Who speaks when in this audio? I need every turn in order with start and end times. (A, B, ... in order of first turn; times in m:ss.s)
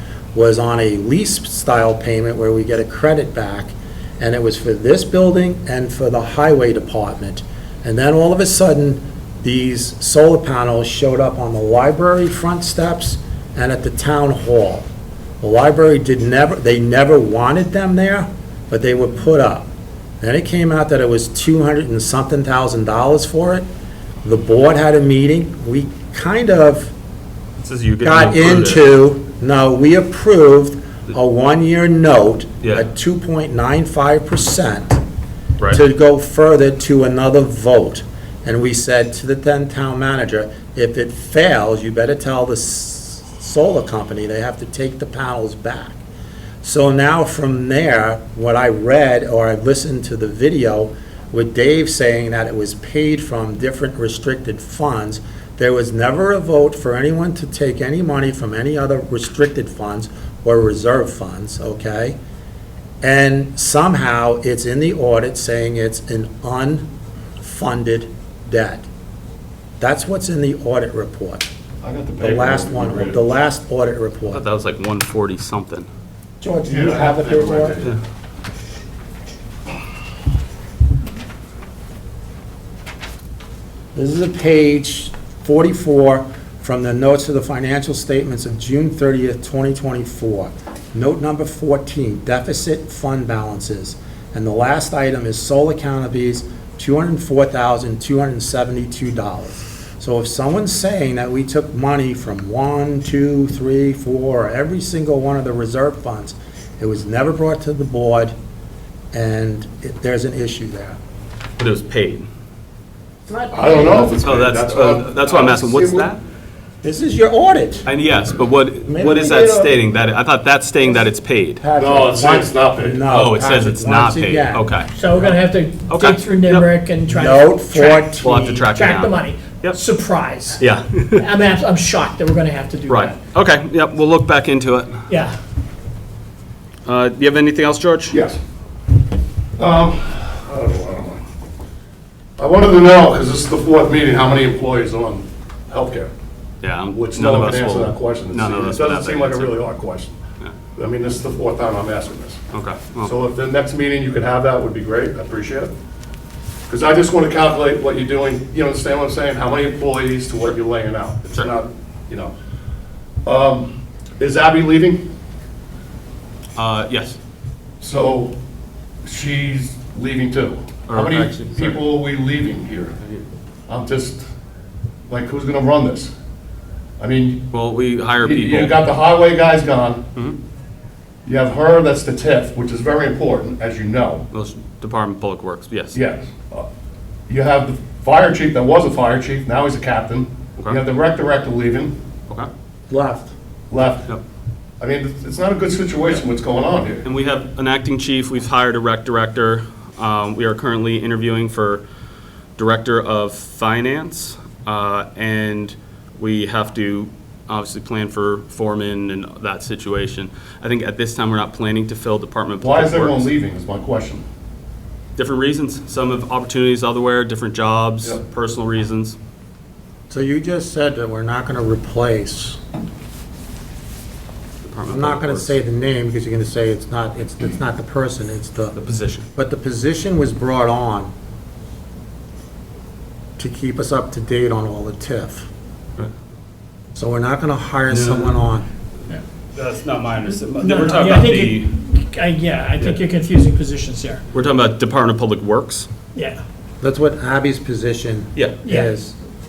0:00.3-0:14.9 A
0:15.4-0:23.7 A
0:24.2-0:26.9 A
0:27.6-0:28.8 B
0:28.0-0:35.0 A
0:35.7-0:46.0 A
0:46.6-1:02.2 A
1:03.0-1:06.9 A
1:07.4-1:08.9 A
1:09.8-1:11.5 A
1:11.8-1:13.2 C
1:12.2-1:14.4 A
1:14.3-1:15.9 B
1:16.4-1:17.8 A
1:16.7-1:18.0 C
1:24.0-1:48.4 A
1:49.1-1:51.0 A
1:51.6-1:52.3 B
1:53.3-1:54.2 A
1:53.5-1:56.1 C
1:54.1-1:56.2 B
1:56.8-1:57.9 A
1:57.9-2:01.6 B
1:58.9-1:59.7 A
2:01.6-2:04.6 A
2:01.8-2:03.0 C
2:03.1-2:04.9 B
2:04.9-2:10.6 D
2:05.9-2:06.7 B
2:07.1-2:08.6 A
2:08.2-2:09.8 B
2:10.6-2:11.3 B
2:11.1-2:13.2 D
2:12.9-2:15.0 B
2:15.1-2:15.4 D
2:16.9-2:18.2 B
2:18.1-2:18.4 C
2:19.6-2:21.2 C
2:22.4-2:26.1 C
2:26.6-2:29.6 B
2:26.9-2:30.2 C
2:30.8-2:32.4 C
2:32.5-2:33.2 B
2:33.0-2:35.7 C
2:36.7-2:42.3 C
2:43.2-2:45.1 C
2:46.6-2:47.2 B
2:47.8-2:48.4 C
2:49.0-2:53.0 C
2:50.9-2:51.8 B
2:53.7-2:54.2 C
2:55.1-2:56.1 C
2:57.0-2:57.4 C
2:57.5-2:58.8 B
2:58.2-3:00.0 C
3:01.2-3:04.3 C
3:04.3-3:06.0 B
3:05.9-3:06.7 C
3:07.3-3:12.0 C
3:12.9-3:13.3 A
3:13.7-3:14.1 C
3:14.8-3:17.0 C
3:17.0-3:21.8 B
3:22.6-3:33.3 B
3:32.6-3:34.2 C
3:35.2-3:39.2 B
3:40.1-3:42.6 A
3:44.6-3:45.6 B
3:44.9-3:48.8 A
3:48.8-3:49.3 B
3:49.4-3:51.1 A
3:53.4-3:55.5 A
3:57.0-3:58.7 A
3:57.9-3:58.4 B
3:59.5-4:01.7 B
4:00.5-4:04.2 D
4:04.3-4:05.9 B
4:06.2-4:06.4 D
4:06.8-4:09.2 A
4:08.4-4:08.6 B
4:08.6-4:08.9 D